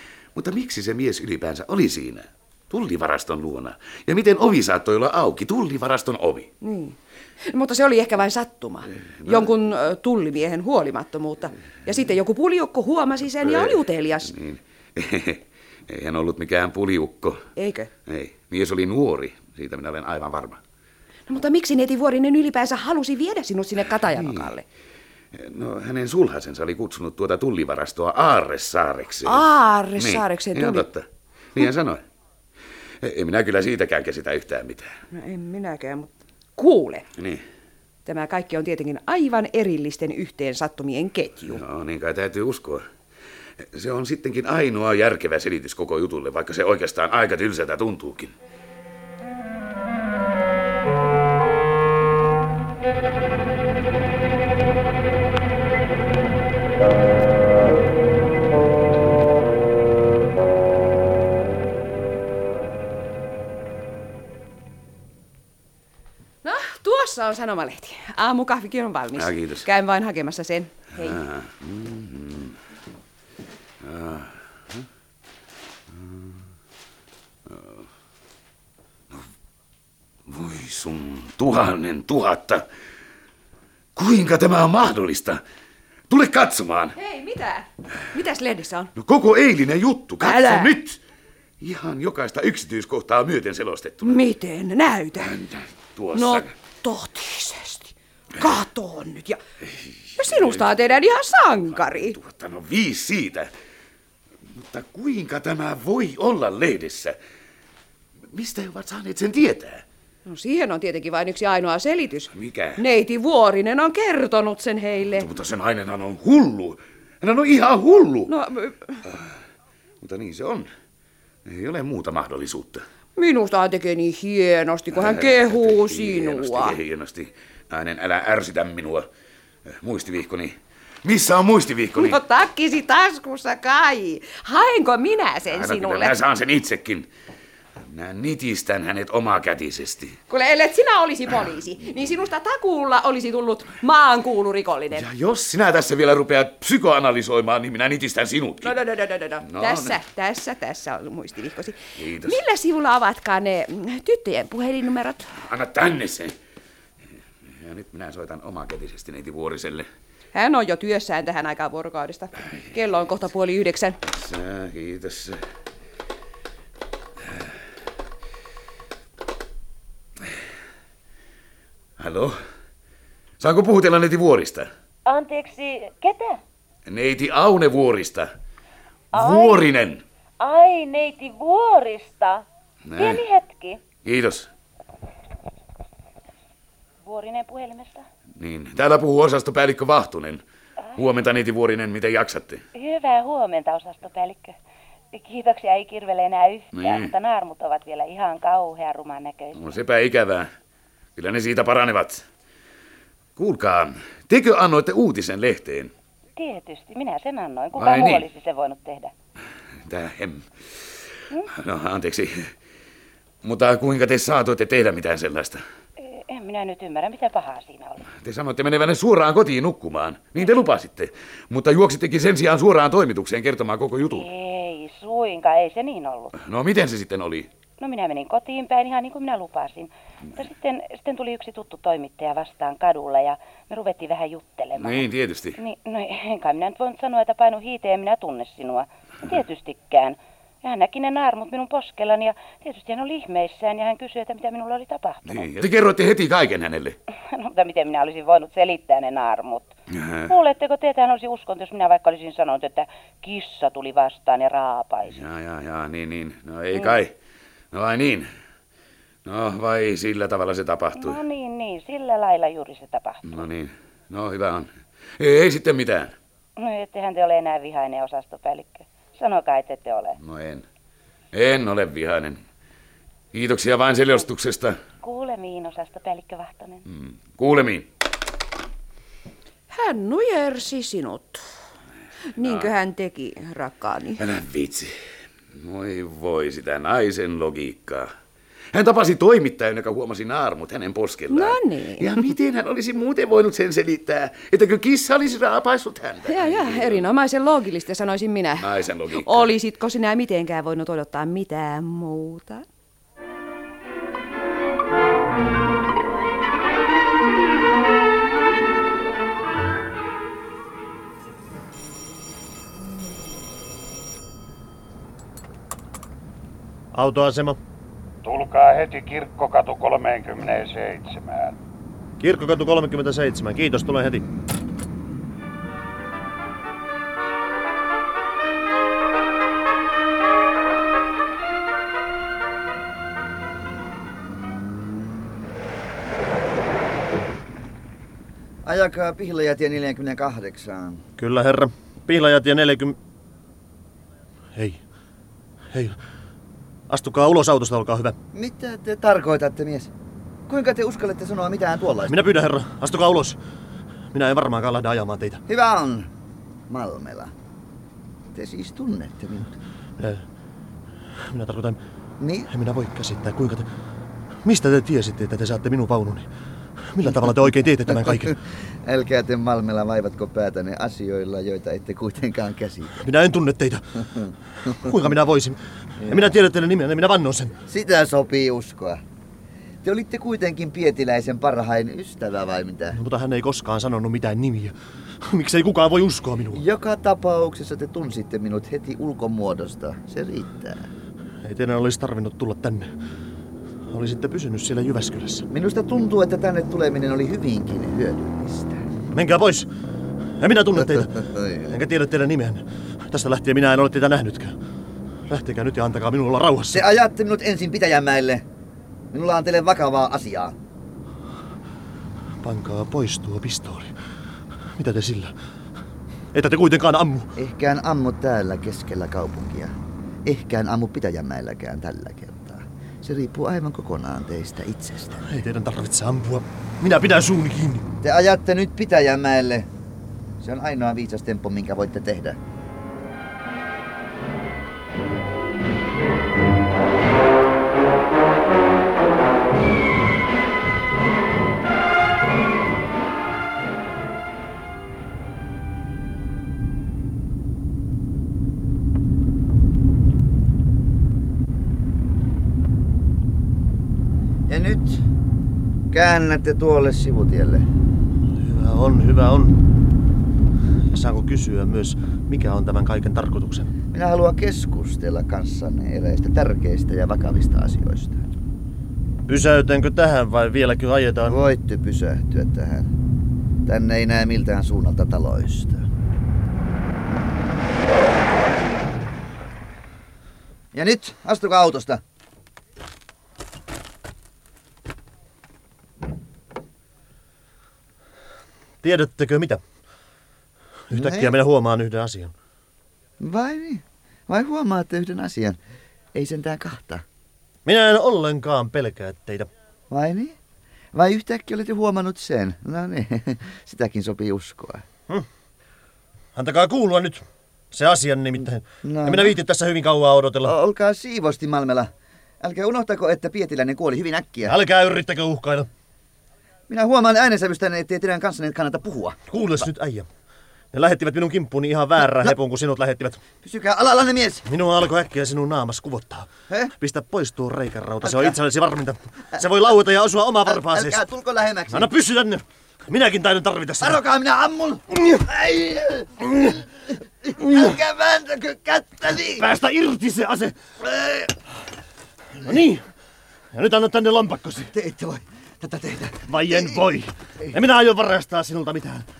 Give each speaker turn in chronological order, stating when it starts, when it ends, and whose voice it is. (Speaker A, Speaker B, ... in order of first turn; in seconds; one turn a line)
Speaker A: 0.3-6.5
Speaker B: 6.6-14.3
Speaker A: 9.2-9.5
Speaker A: 13.4-17.4
Speaker B: 17.6-17.9
Speaker A: 18.1-20.6
Speaker B: 21.3-24.6
Speaker A: 24.1-24.5
Speaker A: 25.3-29.4
Speaker B: 29.2-30.9
Speaker A: 30.0-32.0
Speaker A: 33.0-34.9
Speaker B: 35.1-37.0
Speaker A: 37.2-37.4
Speaker B: 38.0-41.6
Speaker A: 41.5-42.9
Speaker A: 43.6-48.3
Speaker B: 66.4-71.2
Speaker A: 69.2-69.7
Speaker A: 71.0-72.6
Speaker A: 73.8-74.8
Speaker A: 75.9-76.3
Speaker A: 77.5-77.8
Speaker A: 80.3-82.6
Speaker A: 84.0-85.4
Speaker A: 86.1-86.9
Speaker B: 86.9-88.9
Speaker A: 89.0-91.0
Speaker B: 90.2-90.7
Speaker A: 91.6-94.2
Speaker B: 94.0-95.3
Speaker A: 95.2-96.5
Speaker B: 96.1-99.4
Speaker A: 100.1-100.7
Speaker B: 100.2-102.2
Speaker A: 101.8-103.5
Speaker A: 104.5-107.2
Speaker A: 108.3-109.8
Speaker B: 110.2-115.3
Speaker A: 112.3-112.8
Speaker A: 115.1-118.3
Speaker B: 118.3-119.0
Speaker A: 120.0-120.7
Speaker A: 121.4-122.8
Speaker B: 123.2-126.8
Speaker A: 125.0-129.1
Speaker A: 129.8-132.2
Speaker B: 131.9-136.1
Speaker A: 135.5-137.1
Speaker A: 137.9-140.2
Speaker B: 140.3-145.1
Speaker A: 144.9-148.8
Speaker B: 148.6-155.3
Speaker A: 149.4-149.9
Speaker A: 152.0-152.4
Speaker A: 155.4-156.3
Speaker A: 157.6-159.9
Speaker B: 160.3-164.0
Speaker A: 164.1-165.4
Speaker A: 172.0-172.4
Speaker A: 173.4-174.7
Speaker C: 175.1-176.4
Speaker A: 176.9-178.3
Speaker C: 179.1-179.7
Speaker A: 179.1-180.0
Speaker C: 180.4-182.4
Speaker A: 182.8-183.2
Speaker C: 182.9-183.8
Speaker A: 184.0-184.5
Speaker C: 187.0-188.1
Speaker A: 188.4-190.4
Speaker A: 190.9-192.6
Speaker C: 192.7-194.5
Speaker C: 195.1-199.8
Speaker A: 196.7-197.1
Speaker A: 199.6-200.5
Speaker A: 201.2-202.2
Speaker A: 203.4-205.9
Speaker C: 206.3-209.1
Speaker A: 207.8-208.2
Speaker A: 209.8-210.4
Speaker A: 211.5-212.5
Speaker A: 213.4-215.6
Speaker C: 216.0-218.1
Speaker A: 218.1-224.3
Speaker C: 224.1-226.3
Speaker A: 226.3-227.5
Speaker C: 227.8-245.5
Speaker A: 234.8-235.6
Speaker A: 245.2-247.0
Speaker C: 247.3-249.7
Speaker A: 250.0-250.3
Speaker C: 250.3-255.2
Speaker A: 255.1-257.1
Speaker A: 257.7-258.3
Speaker A: 259.2-261.2
Speaker C: 260.9-263.4
Speaker A: 263.2-266.1
Speaker C: 266.6-270.2
Speaker A: 270.2-270.6
Speaker A: 271.3-272.4
Speaker A: 273.3-274.8
Speaker C: 275.0-276.8
Speaker A: 276.9-277.9
Speaker B: 279.7-281.4
Speaker B: 282.4-284.2
Speaker A: 284.2-284.9
Speaker A: 285.5-288.1
Speaker A: 288.7-297.0
Speaker B: 291.3-292.2
Speaker B: 296.3-298.7
Speaker A: 298.6-299.5
Speaker B: 299.2-302.6
Speaker D: 316.9-317.6
Speaker D: 322.2-324.2
Speaker E: 334.4-335.3
Speaker E: 338.6-341.0
Speaker D: 341.2-343.0
Speaker D: 344.5-344.8
Speaker D: 346.9-348.1
Speaker E: 348.3-349.9
Speaker E: 350.5-352.2
Speaker D: 352.1-353.4
Speaker D: 354.1-355.4
Speaker E: 355.5-356.1
Speaker E: 356.7-357.3
Speaker E: 358.3-359.5
Speaker D: 360.0-360.2
Speaker D: 361.3-361.8
Speaker E: 362.2-362.5
Speaker D: 362.5-363.7
Speaker D: 364.4-366.3
Speaker D: 366.9-368.4
Speaker E: 368.8-373.0
Speaker D: 373.0-374.0
Speaker D: 374.7-377.6
Speaker E: 376.0-376.3
Speaker E: 377.7-379.0
Speaker E: 379.8-383.0
Speaker D: 382.9-386.6
Speaker E: 386.5-390.9
Speaker D: 391.4-392.9
Speaker D: 393.9-395.5
Speaker E: 395.5-398.8
Speaker D: 399.1-399.7
Speaker D: 400.4-404.6
Speaker E: 400.9-401.7
Speaker D: 405.3-406.8
Speaker E: 406.7-408.4
Speaker E: 409.1-410.5
Speaker D: 412.4-413.9
Speaker D: 414.8-415.3
Speaker D: 416.3-417.3
Speaker E: 417.4-419.7
Speaker E: 420.2-425.2
Speaker D: 425.2-427.9
Speaker E: 428.0-429.7
Speaker E: 430.4-432.4
Speaker E: 454.5-455.0
Speaker E: 455.9-457.6
Speaker D: 458.4-459.6
Speaker D: 460.9-463.7
Speaker E: 463.9-468.2
Speaker D: 469.3-471.4
Speaker E: 471.3-472.9
Speaker E: 473.6-475.9
Speaker E: 480.7-482.0
Speaker D: 488.8-489.6
Speaker D: 490.9-492.3
Speaker E: 490.9-491.3
Speaker E: 493.2-495.6
Speaker E: 496.1-497.0
Speaker D: 497.6-499.5
Speaker E: 499.9-500.4
Speaker E: 500.9-504.9
Speaker D: 506.3-510.5
Speaker E: 508.8-509.3
Speaker E: 510.4-511.9
Speaker E: 512.4-514.5
Speaker D: 514.4-515.7
Speaker E: 516.7-519.2
Speaker D: 519.3-520.1
Speaker D: 520.7-523.2
Speaker E: 523.4-524.4
Speaker D: 524.5-531.0
Speaker E: 530.5-531.9
Speaker D: 531.7-534.0
Speaker E: 533.8-536.6
Speaker E: 537.2-539.4
Speaker D: 537.4-537.7
Speaker D: 539.3-540.5
Speaker E: 541.0-541.3
Speaker D: 542.4-542.9
Speaker D: 543.5-544.7
Speaker E: 544.7-546.7
Speaker D: 546.2-549.0